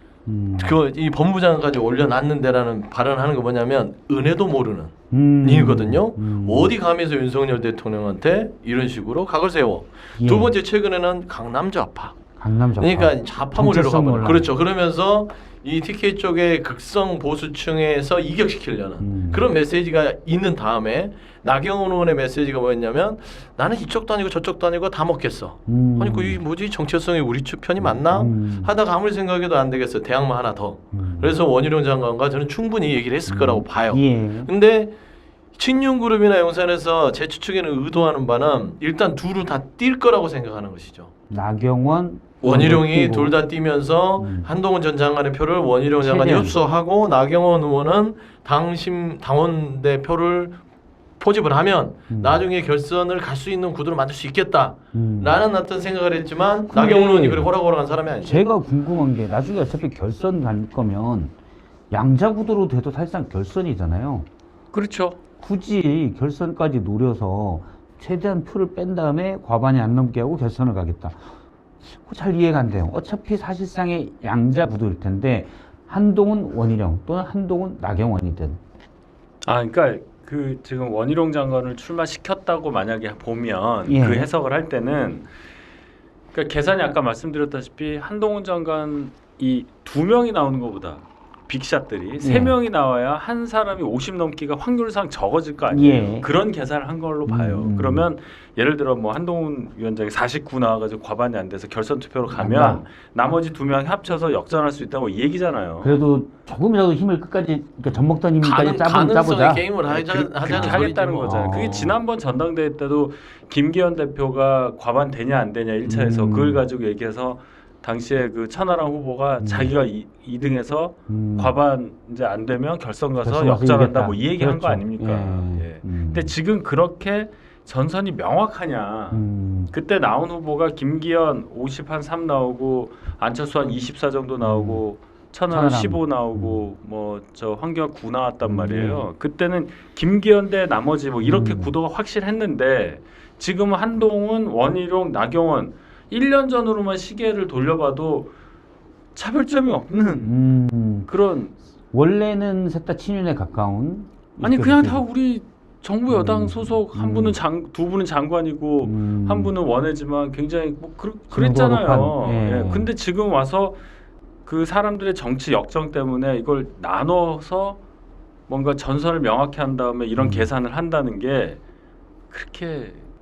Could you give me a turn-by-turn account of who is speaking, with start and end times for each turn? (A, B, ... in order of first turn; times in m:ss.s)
0:00.3-0:00.8 A
0:00.6-0:12.2 B
0:05.1-0:06.7 A
0:10.2-0:10.5 A
0:12.4-0:14.5 A
0:12.8-0:34.9 B
0:19.0-0:19.5 A
0:25.6-0:26.4 A
0:27.8-0:28.7 A
0:30.9-0:31.3 A
0:33.3-0:34.5 A
0:35.5-0:41.1 B
0:41.3-0:43.4 A
0:42.4-0:50.6 B
0:44.2-0:44.5 A
0:46.0-0:46.6 A
0:51.2-0:58.5 B
0:52.1-0:52.4 A
0:54.9-0:55.4 A
0:56.7-0:57.5 A
0:58.2-1:01.3 A
1:01.9-1:04.3 A
1:04.7-1:05.2 C
1:05.4-1:11.2 A
1:11.8-1:18.6 A
1:19.4-1:25.3 C
1:23.8-1:24.3 A
1:26.3-1:46.0 C
1:32.2-1:32.6 A
1:35.7-1:36.3 A
1:37.2-1:38.1 A
1:42.3-1:42.8 A
1:45.8-1:49.7 A
1:48.4-1:51.8 B
1:49.9-2:28.3 C
1:50.4-1:52.0 A
1:55.8-1:56.6 A
1:59.4-1:59.8 A
2:01.1-2:01.6 A
2:03.2-2:06.4 A
2:09.1-2:09.7 A
2:14.4-2:14.8 A
2:15.5-2:16.6 A
2:18.4-2:19.1 A
2:21.2-2:21.7 A
2:29.2-2:30.4 C
2:30.1-2:31.1 A
2:31.0-2:31.5 C
2:31.9-2:35.0 A
2:34.4-2:43.8 C
2:36.1-2:37.4 A
2:38.8-2:39.6 A
2:41.3-2:42.9 A
2:44.4-2:47.8 C
2:48.5-2:51.6 C
2:50.2-2:50.5 A
2:52.3-2:53.0 C